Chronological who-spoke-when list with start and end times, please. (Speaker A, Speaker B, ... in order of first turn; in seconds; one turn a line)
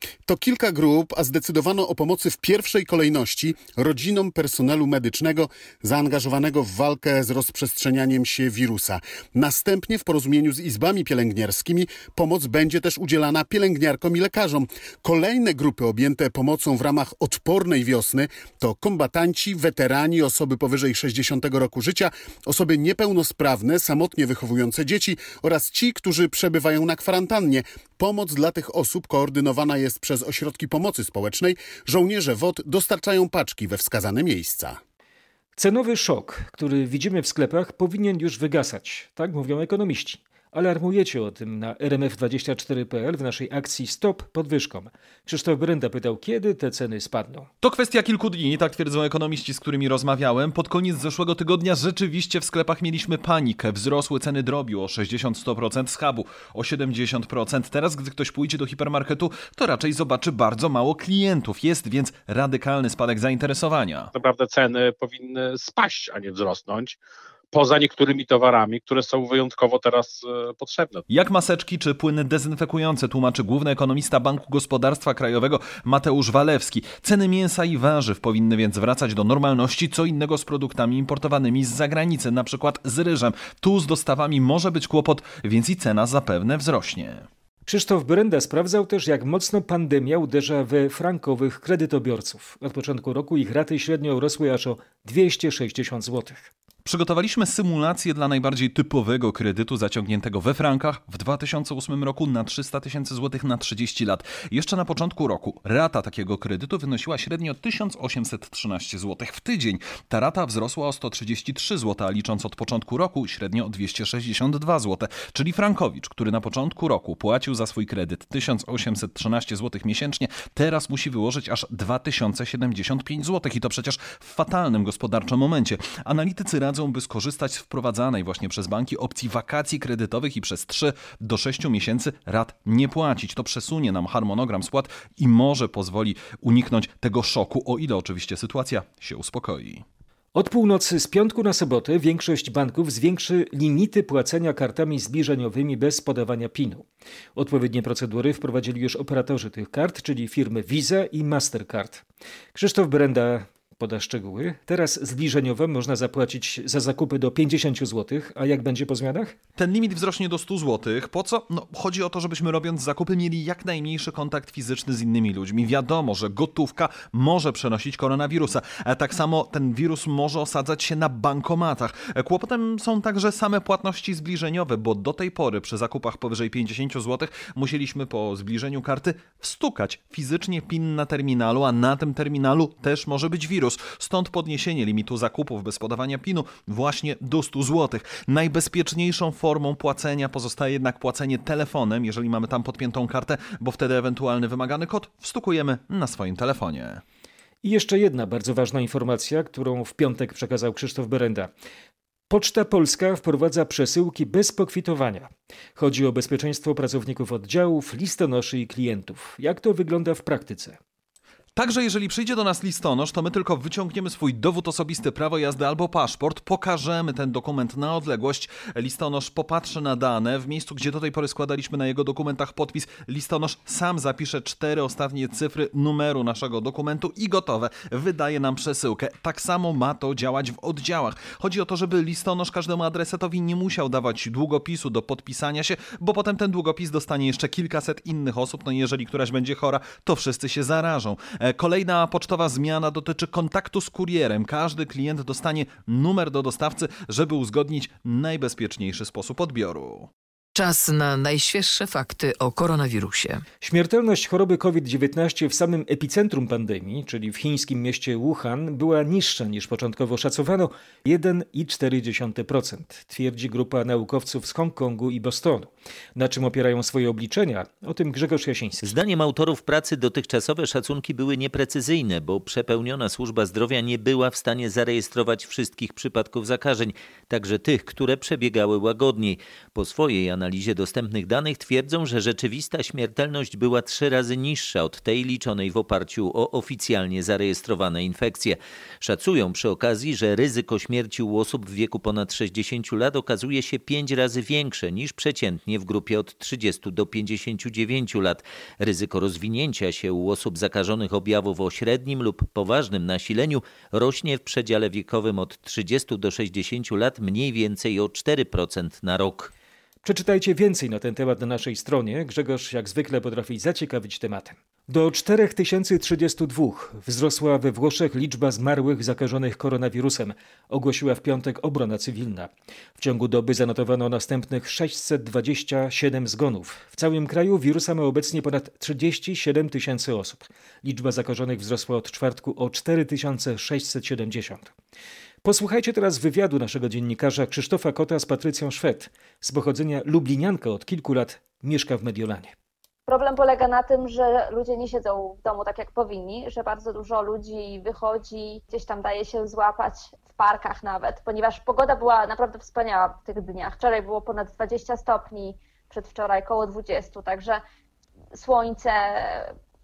Speaker A: 0.2-34.8
Speaker B: 35.5-47.5
Speaker C: 47.6-64.1
Speaker D: 64.1-67.0
Speaker D: 67.5-71.0
Speaker C: 71.1-87.3
Speaker B: 87.7-96.5
Speaker C: 96.8-139.8
Speaker B: 140.3-152.0
Speaker B: 152.5-159.3
Speaker C: 159.6-197.0
Speaker B: 197.6-201.5
Speaker B: 202.3-210.8
Speaker C: 211.5-250.1
Speaker E: 250.6-253.4
Speaker B: 253.6-268.9
Speaker F: 268.8-309.5
Speaker B: 310.0-334.7
Speaker B: 335.4-342.5
Speaker G: 343.1-357.6
Speaker G: 358.3-359.6